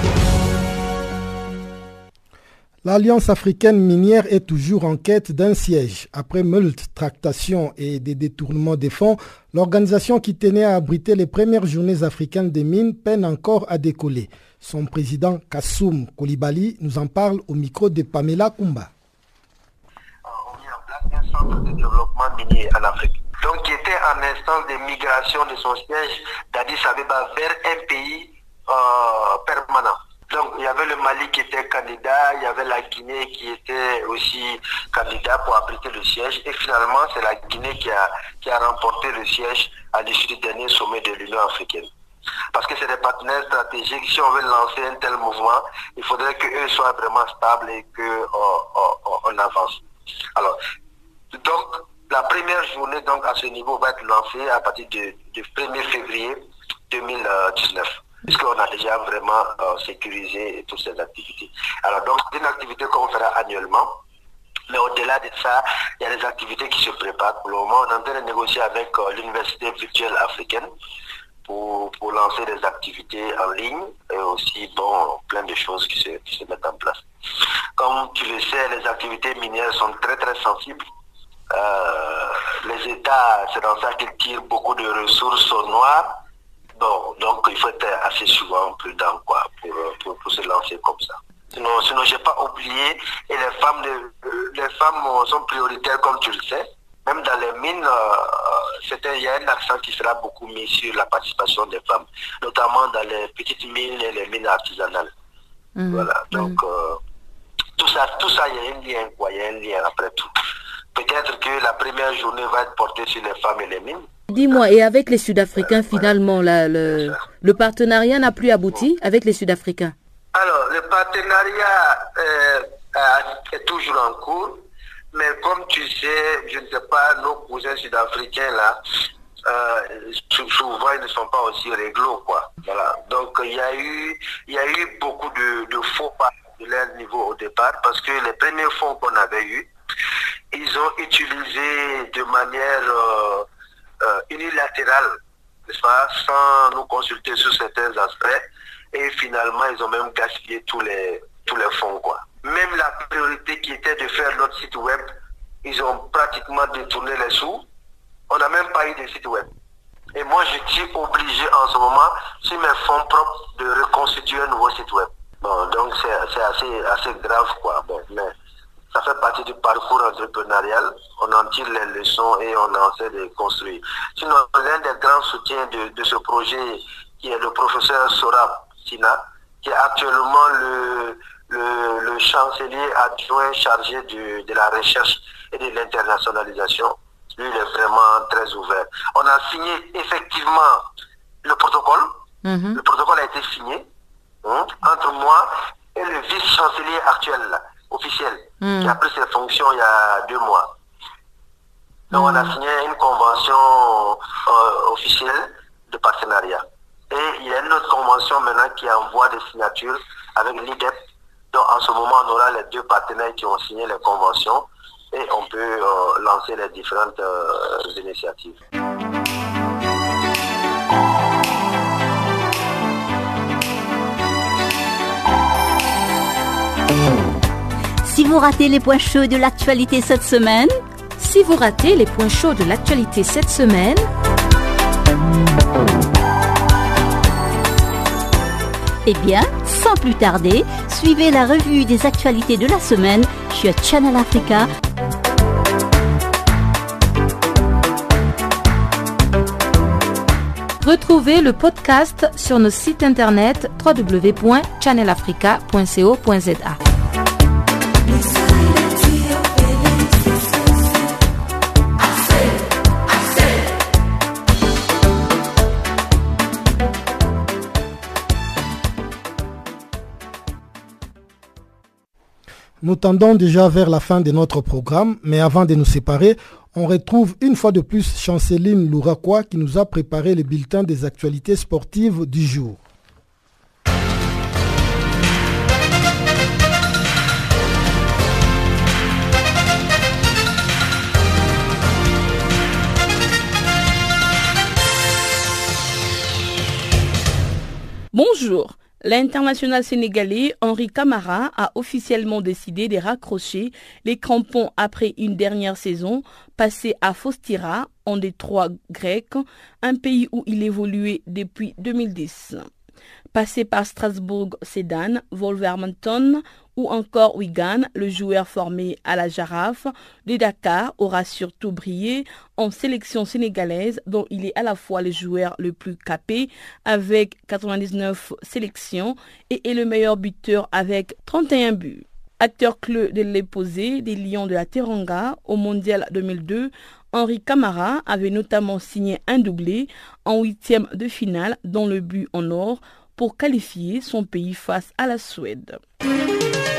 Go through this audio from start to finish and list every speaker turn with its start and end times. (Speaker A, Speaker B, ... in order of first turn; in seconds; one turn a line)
Speaker A: 2.8-18.9
Speaker B: 20.2-41.9
Speaker B: 42.5-49.8
Speaker B: 51.3-56.4
Speaker B: 56.9-63.9
Speaker B: 64.7-70.7
Speaker B: 71.5-77.0
Speaker B: 77.8-80.8
Speaker B: 81.5-86.1
Speaker B: 86.8-105.1
Speaker C: 105.8-106.6
Speaker B: 105.9-107.0
Speaker B: 107.8-110.3
Speaker B: 110.9-114.0
Speaker C: 114.3-119.9
Speaker B: 115.8-116.1
Speaker B: 120.3-128.8
Speaker B: 129.4-139.7
Speaker B: 140.5-143.5
Speaker B: 144.0-145.2
Speaker B: 145.7-157.6
Speaker B: 158.3-159.5
Speaker B: 160.1-168.3
Speaker B: 168.9-190.8
Speaker B: 191.4-192.1
Speaker C: 192.4-192.8
Speaker B: 192.7-193.8
Speaker B: 194.4-200.7
Speaker C: 198.6-199.0
Speaker B: 202.1-210.9
Speaker C: 202.1-202.5
Speaker B: 211.5-218.5
Speaker D: 228.0-230.7
Speaker C: 231.2-234.0
Speaker D: 239.1-244.7
Speaker C: 250.8-256.8
Speaker C: 258.4-259.9
Speaker A: 272.8-282.8
Speaker E: 298.1-312.6
Speaker E: 313.3-345.8